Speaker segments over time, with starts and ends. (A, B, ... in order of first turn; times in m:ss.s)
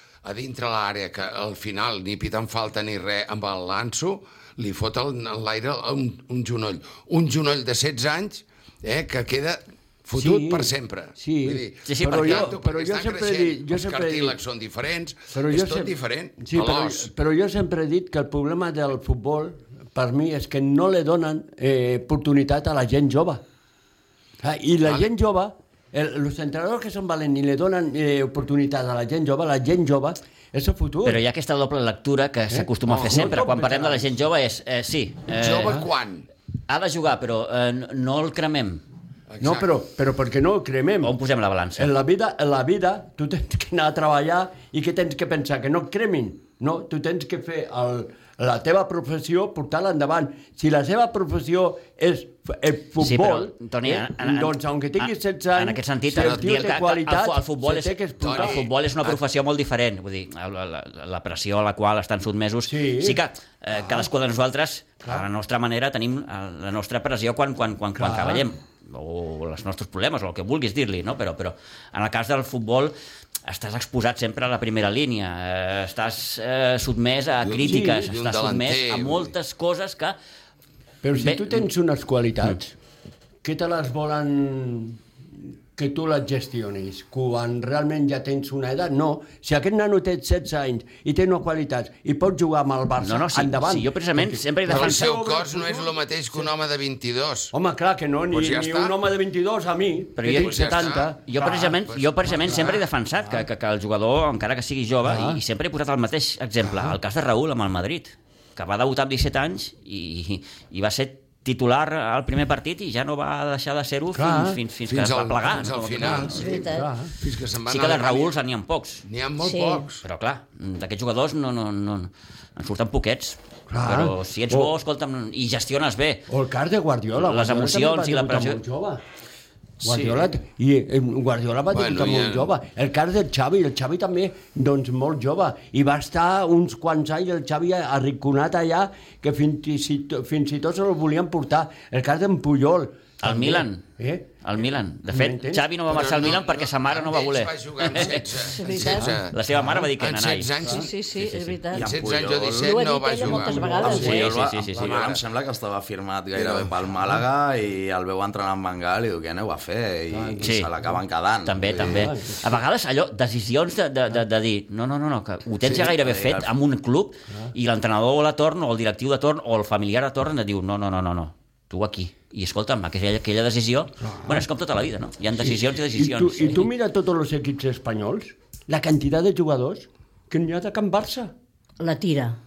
0:00.2-0:17.1 A
0:10.1-0:14.4 B
0:11.8-0:12.5 C
0:15.3-0:23.4 B
0:24.4-0:31.2 B
0:31.0-0:35.8 C
0:32.5-0:34.1 B
0:32.9-0:33.2 A
0:35.4-0:36.3 A
0:36.7-0:38.8 C
0:39.3-0:39.7 A
0:39.4-0:41.1 B
0:41.0-0:41.9 C
0:41.8-0:58.6 B
0:53.0-1:12.9 C
0:56.2-0:56.8 A
0:58.2-0:59.2 A
1:02.6-1:03.2 B
1:08.0-1:08.5 B
1:13.4-1:20.2 C
1:17.4-1:19.3 A
1:17.6-1:18.1 B
1:21.0-1:22.7 B
1:21.2-1:21.6 C
1:23.4-1:25.0 B
1:25.7-1:36.4 B
1:33.0-1:35.1 C
1:34.7-1:37.5 A
1:37.5-1:41.8 B
1:38.3-1:39.0 A
1:40.2-1:56.4 C
1:40.3-1:42.8 A
1:42.4-1:42.8 B
1:45.0-1:45.4 B
1:54.1-1:54.6 B
1:54.9-1:58.3 A
1:55.7-1:57.1 B
1:56.3-1:56.9 D
1:57.7-1:59.0 C
1:59.0-2:00.0 A
1:59.4-1:59.8 D
2:00.0-2:06.2 C
2:03.7-2:04.7 B
2:06.3-2:09.0 B
2:07.2-2:08.6 C
2:09.8-2:10.3 E
2:09.8-2:24.4 B
2:11.7-2:12.5 A
2:23.2-2:23.8 C
2:24.4-2:28.3 C
2:25.1-2:25.7 B
2:25.9-2:30.9 A
2:28.4-2:29.2 D
2:28.7-2:29.8 B
2:29.3-2:30.5 C
2:30.6-2:30.9 B
2:30.6-2:31.9 D
2:31.1-2:31.6 C
2:31.7-2:32.8 E
2:31.8-2:35.2 A
2:32.5-2:34.2 D
2:33.2-2:34.2 B
2:33.8-2:42.1 E
2:33.8-2:34.9 C
2:36.3-2:36.7 A
2:40.1-2:40.9 B
2:40.4-2:40.7 C
2:41.4-2:56.7 C
2:41.7-2:42.6 B
2:45.6-2:46.5 E
2:54.0-2:54.4 B
2:55.3-3:01.3 B
3:01.8-3:02.4 D